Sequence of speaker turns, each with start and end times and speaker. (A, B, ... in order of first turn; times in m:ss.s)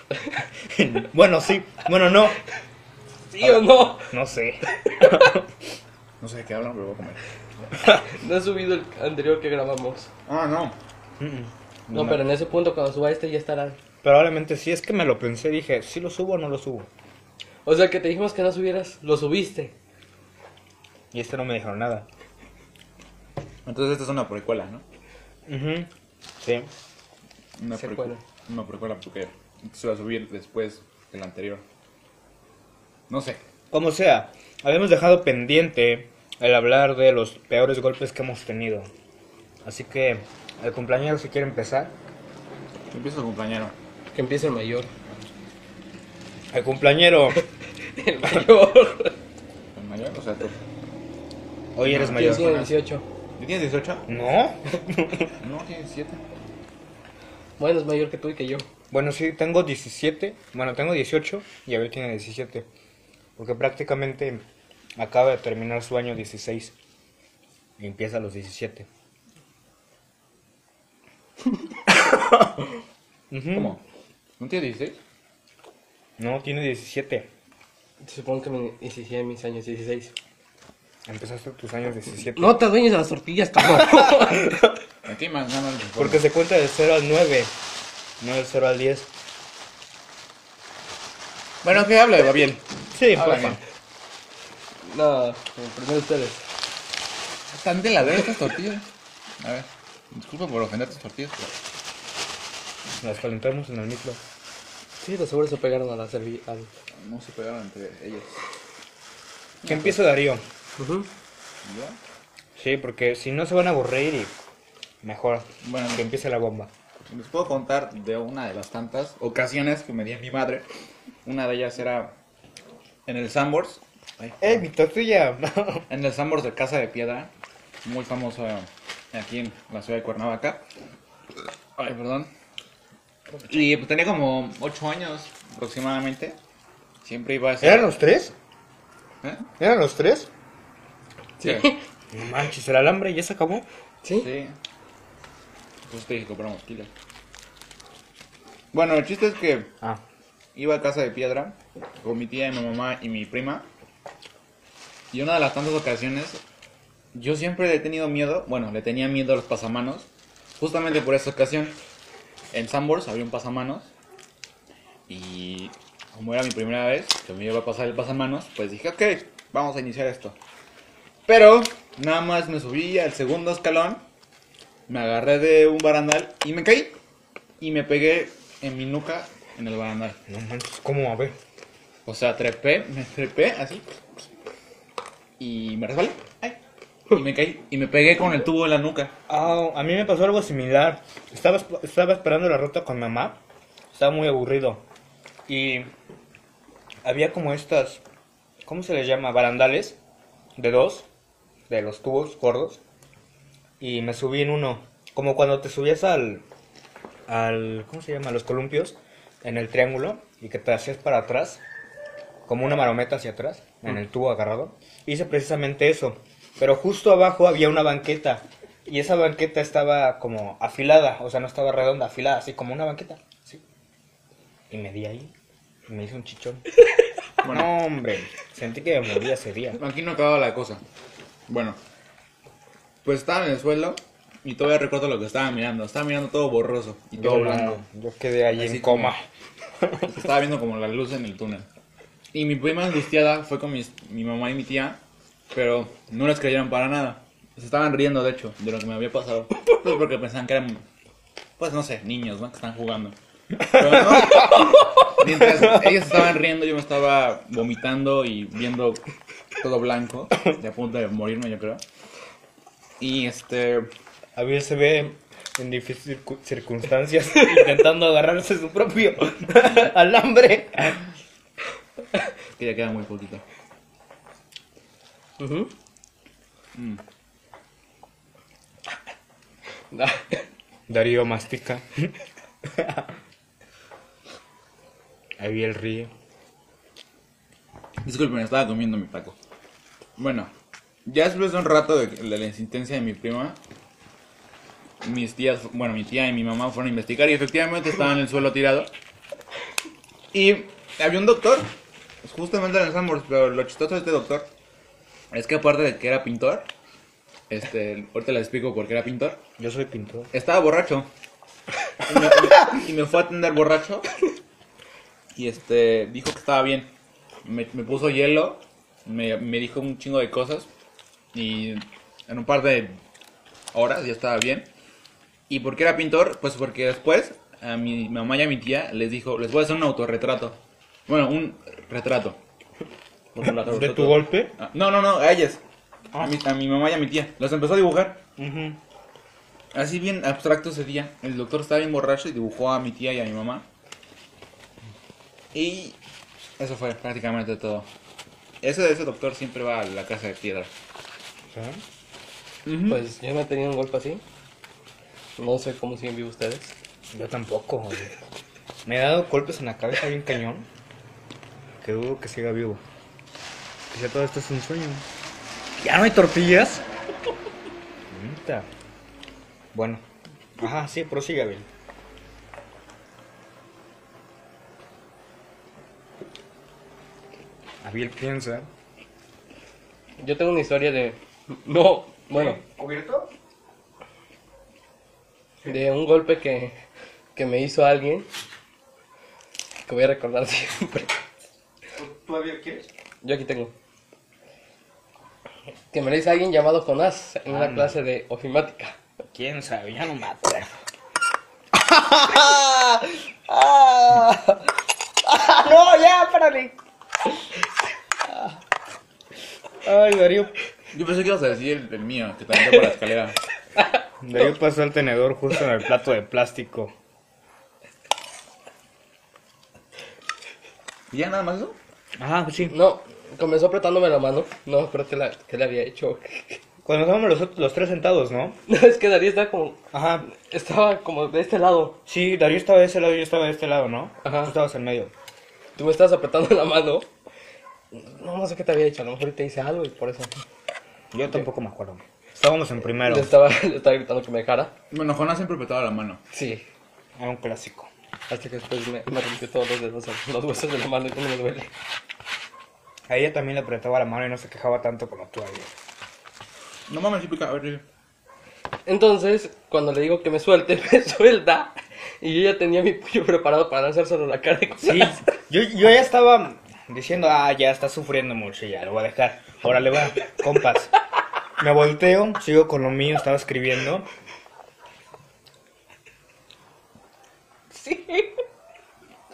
0:00.4-0:02.4 A
0:03.3-0:04.1 B
0:03.4-0:05.5 A
0:04.8-0:05.3 B
0:06.2-0:07.2 C
0:08.0-0:10.1 B
0:10.3-0:10.8 C
0:11.2-0:12.2 A
0:11.9-0:13.8 B
0:14.0-0:16.9 A
0:17.6-0:19.7 B
0:21.1-0:22.1 A
0:23.7-0:24.8 C
0:25.5-0:26.7 A
0:27.6-0:31.6 C
0:27.8-0:28.2 B
0:33.1-0:33.4 C
0:33.7-0:38.9 A
0:39.6-0:41.9 A
0:42.9-0:43.7 C
0:44.1-0:44.9 B
0:46.5-0:47.4 A
0:48.0-0:49.2 B
0:49.8-0:50.6 C
0:51.8-0:52.6 A
0:51.8-0:52.7 C
0:52.1-0:53.0 B
0:53.4-0:54.1 C
0:54.1-0:55.3 A
0:55.4-0:56.2 C
0:57.6-0:58.7 B
0:58.9-1:02.7 A
1:03.4-1:04.4 A
1:05.0-1:06.7 A
1:07.8-1:08.9 A
1:12.0-1:12.5 A
1:13.3-1:13.8 A
1:13.5-1:13.8 C
1:14.4-1:15.0 C
1:16.2-1:17.3 A
1:18.0-1:20.1 B
1:21.1-1:22.6 A
1:22.4-1:24.7 B
1:25.0-1:26.2 C
1:26.0-1:27.5 A
1:28.2-1:29.1 A
1:31.6-1:33.6 C
1:32.9-1:33.6 A
1:34.8-1:36.4 B
1:37.5-1:38.8 C
1:39.4-1:41.5 C
1:43.0-1:44.2 A
1:45.0-1:46.7 B
1:47.0-1:48.4 C
1:49.6-1:50.0 C
1:49.7-1:50.4 A
1:50.8-1:51.1 B
1:51.6-1:52.0 C
1:52.6-1:54.3 A
1:55.0-1:56.7 A
1:55.6-1:56.0 C
1:57.1-2:00.7 C
2:01.2-2:02.1 C
2:03.1-2:04.6 C
2:04.4-2:05.9 A
2:05.9-2:07.3 C
2:07.8-2:10.6 C
2:11.8-2:12.3 C
2:13.4-2:16.4 C
2:17.0-2:18.0 C
2:17.6-2:18.3 A
2:19.2-2:19.5 C
2:19.6-2:20.3 A
2:21.4-2:21.8 B
2:21.4-2:21.7 C
2:22.1-2:23.7 A
2:24.2-2:24.6 C
2:25.9-2:26.9 C
2:28.7-2:29.7 C
2:30.6-2:33.7 C
2:35.1-2:36.4 C
2:37.1-2:40.1 C
2:40.6-2:41.8 C
2:42.5-2:43.9 C
2:45.1-2:50.4 C
2:51.3-2:54.0 C
2:54.9-2:57.0 C
2:57.6-3:00.2 C
3:00.3-3:01.4 A
3:02.1-3:04.0 C
3:05.4-3:06.6 C
3:07.1-3:09.1 C
3:09.3-3:13.4 A
3:13.9-3:14.8 A
3:15.5-3:15.9 A
3:17.0-3:18.0 A
3:18.6-3:20.0 A
3:20.6-3:21.1 A
3:21.7-3:22.8 A
3:23.8-3:26.4 A
3:27.3-3:31.6 A
3:32.5-3:43.6 A
3:44.7-3:45.3 A
3:45.9-3:46.6 A
3:47.4-3:47.7 C
3:47.5-3:49.8 A
3:49.8-3:50.8 C
3:51.5-3:51.8 C
3:53.0-3:57.8 C
3:57.2-3:59.2 A
3:58.5-3:59.1 C
3:59.8-4:00.1 A
4:00.0-4:01.7 C
4:02.3-4:05.0 C
4:05.5-4:10.8 C
4:11.6-4:19.0 C
4:13.6-4:14.8 A
4:15.4-4:16.0 A
4:19.6-4:21.8 C
4:23.0-4:23.9 C
4:24.4-4:31.0 A
4:32.6-4:33.4 C
4:35.4-4:35.7 B
4:36.8-4:37.0 C
4:39.9-4:40.4 B
4:40.9-4:42.1 A
4:42.7-4:43.1 A
4:45.4-4:46.1 A
4:48.0-4:49.4 C
4:50.2-4:50.5 C
4:51.1-4:53.6 C
4:55.0-4:58.9 C
5:00.3-5:01.7 C
5:02.2-5:04.5 C
5:05.3-5:06.7 C
5:07.5-5:09.4 C
5:09.6-5:10.3 A
5:10.3-5:11.1 C
5:12.1-5:14.1 C
5:15.4-5:16.9 C
5:17.4-5:20.7 C
5:21.3-5:23.0 C
5:23.7-5:24.7 C
5:25.5-5:32.4 C
5:33.3-5:34.2 B
5:33.4-5:34.6 A
5:34.6-5:35.6 C
5:36.2-5:38.2 C
5:38.4-5:38.8 A
5:39.7-5:43.6 C
5:45.5-5:46.0 C
5:46.6-5:47.9 C
5:48.6-5:50.7 C
5:51.5-5:51.8 A
5:52.7-5:53.0 C
5:52.8-5:54.2 B
5:55.4-5:56.7 B
5:57.1-5:58.1 A
5:58.8-6:00.7 A
6:01.8-6:02.8 A
6:03.9-6:05.1 A
6:05.8-6:06.8 A
6:08.1-6:08.7 A
6:09.7-6:10.0 A
6:10.6-6:11.7 A
6:17.8-6:18.7 A
6:20.2-6:22.6 B
6:22.3-6:23.3 A
6:25.6-6:26.7 B
6:27.4-6:28.3 B
6:29.9-6:31.2 B
6:32.0-6:32.9 A
6:33.2-6:33.7 B
6:35.9-6:39.0 B
6:37.5-6:38.0 A
6:39.3-6:40.7 A
6:41.7-6:44.6 A
6:45.2-6:46.8 A
6:49.8-6:50.5 A
6:50.9-6:53.4 C
6:54.2-6:56.9 A
7:01.1-7:01.8 C
7:02.2-7:02.8 A
7:02.7-7:06.6 B
7:06.8-7:08.6 A
7:08.7-7:12.0 B
7:09.9-7:10.3 A
7:12.1-7:15.1 A
7:14.2-7:14.6 B
7:15.8-7:17.1 B
7:17.9-7:20.3 B
7:21.1-7:23.3 A
7:23.0-7:24.7 B
7:24.9-7:26.2 C
7:26.3-7:26.6 B
7:27.2-7:27.9 A
7:28.3-7:31.7 B
7:33.1-7:35.7 A
7:36.9-7:37.8 C
7:38.9-7:45.2 B
7:44.8-7:50.9 A
7:51.6-7:54.1 A
7:57.8-7:58.3 B